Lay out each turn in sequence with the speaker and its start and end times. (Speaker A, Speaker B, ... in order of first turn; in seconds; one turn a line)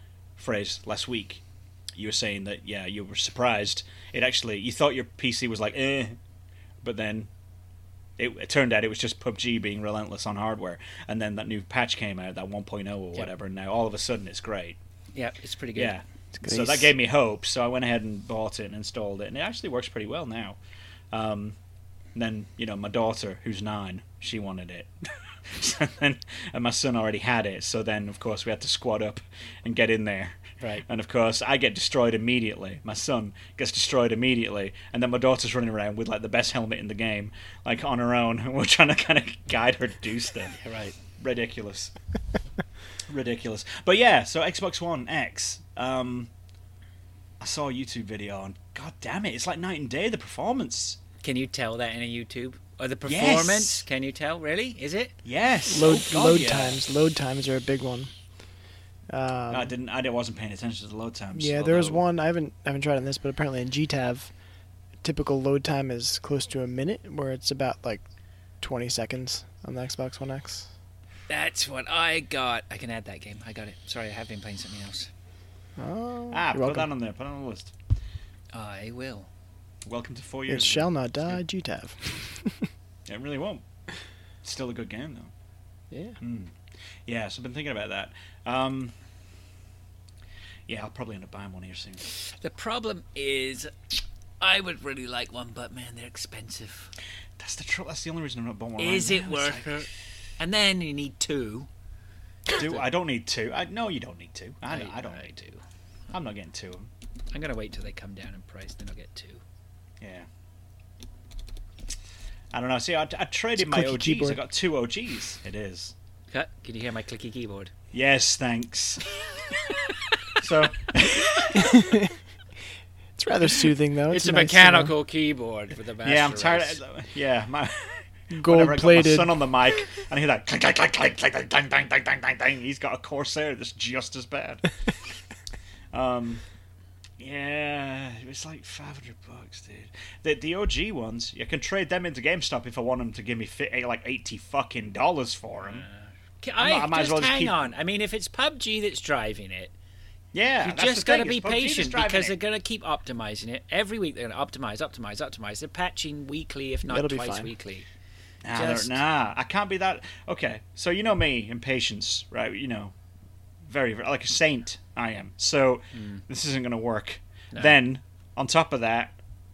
Speaker A: 0.4-1.4
Speaker A: 1.9-6.2
Speaker A: 6.8-7.3
Speaker A: 8.2-14.8
Speaker B: 15.1-16.0
Speaker A: 15.8-20.6
Speaker C: 16.4-16.9
Speaker A: 21.1-21.6
Speaker A: 22.1-24.9
Speaker A: 25.5-40.6
Speaker B: 30.6-30.9
Speaker B: 40.6-41.0
Speaker A: 41.2-41.9
Speaker A: 43.1-46.3
Speaker A: 47.4-51.0
Speaker B: 51.2-55.1
Speaker A: 53.0-53.8
Speaker A: 55.2-56.8
Speaker C: 55.7-58.1
Speaker C: 59.1-59.7
Speaker A: 59.5-62.0
Speaker C: 61.3-64.3
Speaker C: 65.0-68.0
Speaker C: 68.6-70.7
Speaker B: 71.3-75.1
Speaker C: 75.8-76.9
Speaker A: 76.3-77.7
Speaker B: 78.5-79.3
Speaker A: 79.8-81.4
Speaker C: 80.5-82.7
Speaker A: 83.1-83.6
Speaker A: 84.4-85.3
Speaker C: 85.9-86.2
Speaker A: 86.2-86.5
Speaker A: 87.1-88.9
Speaker A: 90.7-92.0
Speaker B: 92.1-93.7
Speaker B: 94.4-96.9
Speaker A: 97.4-99.8
Speaker B: 98.8-101.7
Speaker A: 102.5-105.4
Speaker B: 102.6-102.8
Speaker B: 104.7-105.6
Speaker A: 106.1-106.9
Speaker B: 107.3-109.4
Speaker A: 110.0-110.3
Speaker A: 112.5-115.9
Speaker C: 113.6-114.4
Speaker B: 116.3-117.7
Speaker A: 117.9-119.1
Speaker A: 120.4-121.8
Speaker C: 121.5-122.1
Speaker C: 123.2-124.9
Speaker B: 124.1-126.8
Speaker A: 126.0-134.7
Speaker C: 128.3-129.3
Speaker A: 135.9-136.4
Speaker A: 137.2-145.8
Speaker B: 145.6-149.7
Speaker A: 146.6-147.7
Speaker A: 150.3-152.3
Speaker B: 150.6-157.9
Speaker C: 156.9-157.5
Speaker A: 158.4-162.9
Speaker B: 158.5-159.0
Speaker A: 163.7-169.2
Speaker B: 165.9-166.2